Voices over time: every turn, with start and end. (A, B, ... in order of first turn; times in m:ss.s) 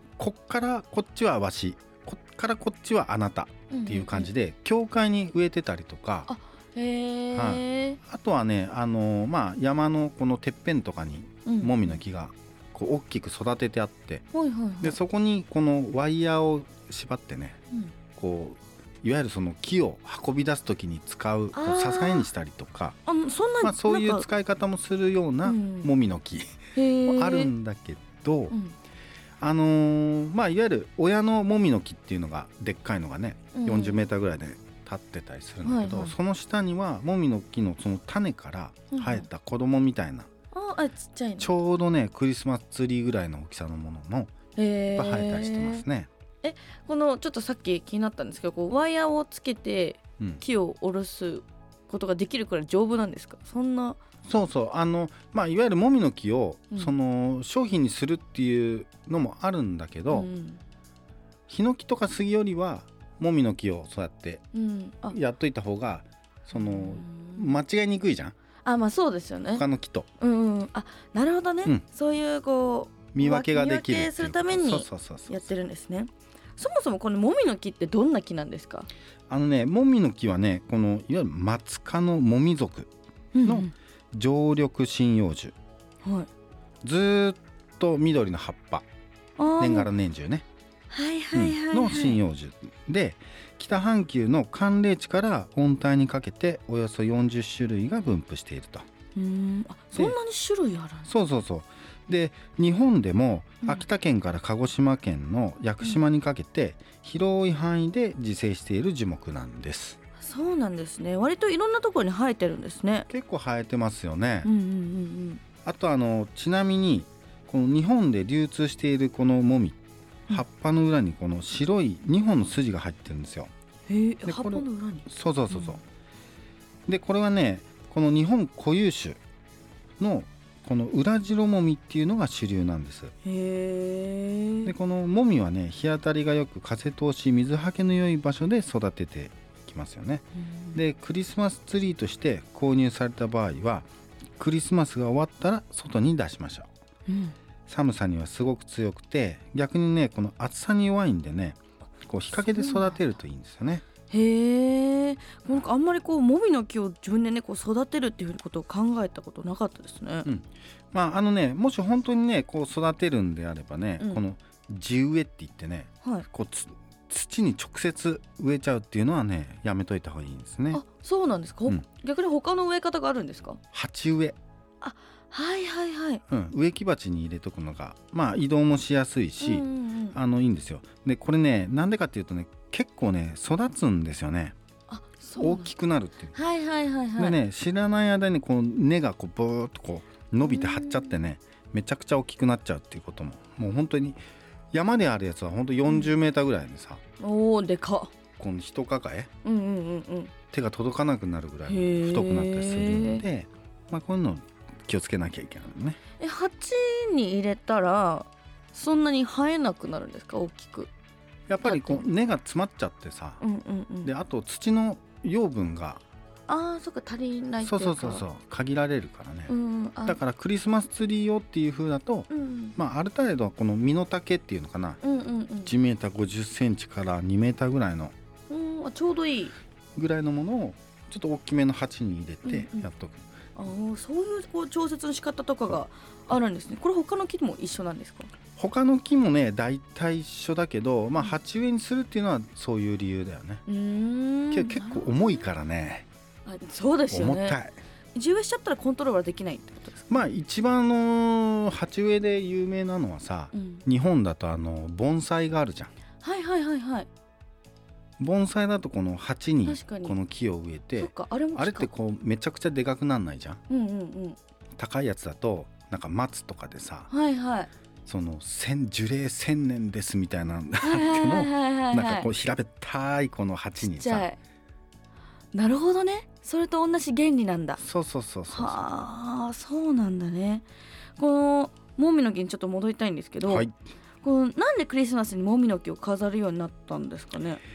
0:00.2-0:06.3 A
0:03.7-0:04.3 B
0:06.3-0:08.0 B
0:07.4-0:14.3 A
0:11.5-0:12.0 B
0:14.3-0:15.0 B
0:14.8-0:17.6 A
0:18.2-0:23.0 A
0:21.5-0:22.3 B
0:23.1-0:24.3 B
0:23.6-0:28.6 A
0:25.4-0:25.9 B
0:26.8-0:27.5 B
0:29.4-0:40.3 A
0:33.5-0:34.1 B
0:35.6-0:36.2 B
0:38.9-0:39.3 B
0:40.5-0:41.5 B
0:41.4-0:44.4 A
0:44.6-0:45.8 B
0:44.9-0:46.1 A
0:46.4-0:54.0 B
0:54.2-1:00.3 A
1:00.1-1:00.6 B
1:01.5-1:04.4 A
1:04.5-1:05.2 B
1:05.1-1:08.4 A
1:06.5-1:07.5 B
1:08.6-1:09.6 B
1:09.5-1:10.1 A
1:10.2-1:18.9 B
1:13.1-1:15.5 A
1:19.3-1:22.9 A
1:23.3-1:23.7 B
1:23.4-1:25.6 A
1:26.0-1:26.3 B
1:26.8-1:28.9 A
1:29.4-1:29.9 B
1:29.6-1:30.4 A
1:30.9-1:32.2 B
1:31.3-1:38.9 A
1:39.2-1:41.1 B
1:41.1-1:50.0 A
1:50.2-1:53.1 B
1:53.1-1:54.5 A
1:54.4-1:55.4 B
1:55.6-2:03.5 A
2:03.9-2:05.8 B
2:04.3-2:05.8 A
2:06.9-2:09.2 A
2:10.0-2:13.1 A
2:13.2-2:14.7 B
2:14.6-2:26.7 A
2:20.4-2:20.8 B
2:27.1-2:27.4 B
2:27.7-2:33.8 A
2:32.4-2:33.0 B
2:34.1-2:40.3 B
2:40.3-2:50.8 A
2:50.7-2:53.6 B
2:53.7-2:54.4 A
2:54.8-2:56.2 B
2:56.3-3:04.6 A
2:59.4-3:00.2 B
3:04.9-3:05.7 B
3:05.4-3:06.3 A
3:06.3-3:07.4 B
3:07.2-3:17.0 A
3:10.4-3:11.2 B
3:17.2-3:18.1 B
3:18.4-3:19.3 A
3:19.4-3:20.3 B
3:20.5-3:26.0 A
3:21.7-3:23.3 B
3:26.2-3:30.9 B
3:31.5-3:33.4 A
3:31.6-3:32.1 B
3:33.4-3:34.1 B
3:34.0-3:36.0 A
3:36.5-3:38.2 B
3:37.6-3:39.5 A
3:39.5-3:40.2 B
3:40.1-3:45.0 A
3:42.3-3:42.8 B
3:45.0-3:45.7 B
3:45.6-3:48.1 A
3:48.5-3:49.6 B
3:50.0-3:53.3 A
3:52.4-3:52.9 B
3:53.6-3:58.3 B
3:58.6-4:03.6 A
4:03.7-4:05.5 B
4:04.5-4:06.1 A
4:06.4-4:07.6 B
4:07.1-4:07.8 A
4:08.1-4:10.2 B
4:10.1-4:15.9 A
4:13.5-4:13.8 B
4:16.2-4:17.1 B
4:18.2-4:23.6 A
4:19.6-4:20.2 B
4:21.0-4:21.9 B
4:23.7-4:24.4 B
4:24.8-4:27.1 A
4:27.1-4:27.7 B
4:28.1-4:34.3 A
4:30.8-4:32.3 B
4:33.8-4:34.4 B
4:35.5-4:37.8 B
4:37.8-4:38.8 A
4:38.5-4:40.7 B
4:41.2-4:43.7 B
4:43.4-4:43.7 A
4:44.2-4:47.6 B